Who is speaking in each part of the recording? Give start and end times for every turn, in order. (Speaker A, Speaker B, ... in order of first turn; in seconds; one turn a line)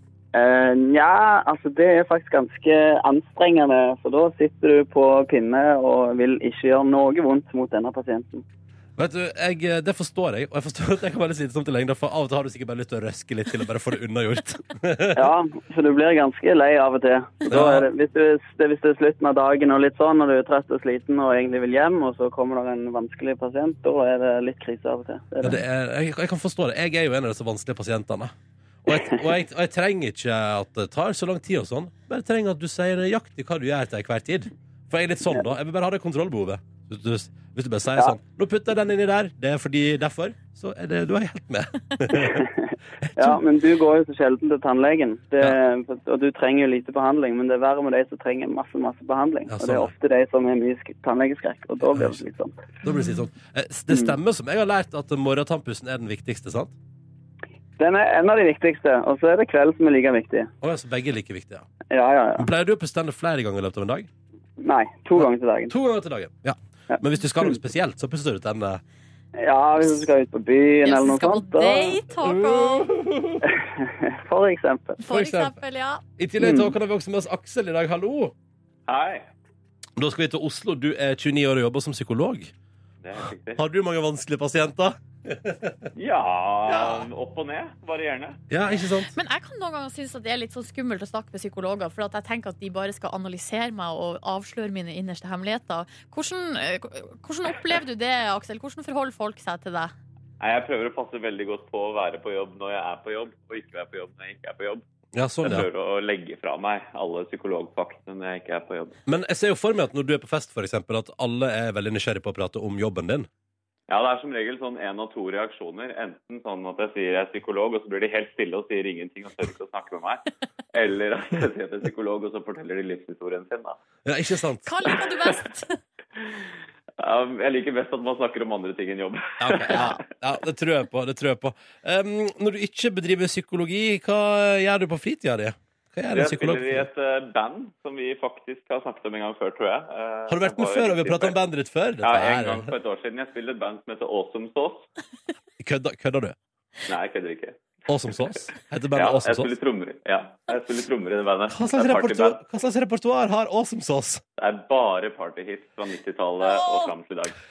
Speaker A: 0.3-8.4
Speaker B: 9.0-15.3
Speaker A: 15.1-25.6
Speaker B: 17.5-17.9
Speaker B: 25.4-42.4
Speaker A: 42.1-52.7
Speaker B: 43.0-43.4
Speaker B: 49.5-49.9
Speaker B: 52.8-56.7
Speaker A: 57.8-60.5
Speaker B: 60.6-61.7
Speaker A: 61.9-62.5
Speaker B: 62.4-64.1
Speaker A: 64.6-65.7
Speaker B: 65.2-68.8
Speaker A: 66.9-67.5
Speaker A: 69.4-72.0
Speaker C: 70.8-72.9
Speaker B: 72.2-73.4
Speaker A: 73.5-75.0
Speaker C: 75.0-76.0
Speaker B: 75.1-75.6
Speaker B: 76.2-78.3
Speaker A: 76.4-76.7
Speaker D: 78.9-79.2
Speaker B: 80.0-82.5
Speaker D: 83.0-83.6
Speaker B: 83.5-85.9
Speaker D: 86.0-88.4
Speaker B: 86.7-87.1
Speaker B: 88.5-89.1
Speaker C: 89.1-99.9
Speaker D: 100.4-104.8
Speaker B: 105.1-105.7
Speaker D: 105.4-109.0
Speaker B: 109.1-113.3
Speaker D: 113.9-123.8
Speaker B: 124.0-124.7
Speaker C: 124.6-125.8
Speaker D: 127.0-130.0
Speaker B: 129.4-136.9
Speaker D: 136.1-141.4
Speaker B: 140.3-142.7
Speaker D: 142.0-144.9
Speaker B: 145.6-146.3
Speaker D: 146.9-147.7
Speaker B: 147.9-149.5
Speaker D: 148.9-152.4
Speaker B: 151.5-154.2
Speaker D: 154.4-157.3
Speaker C: 156.4-156.9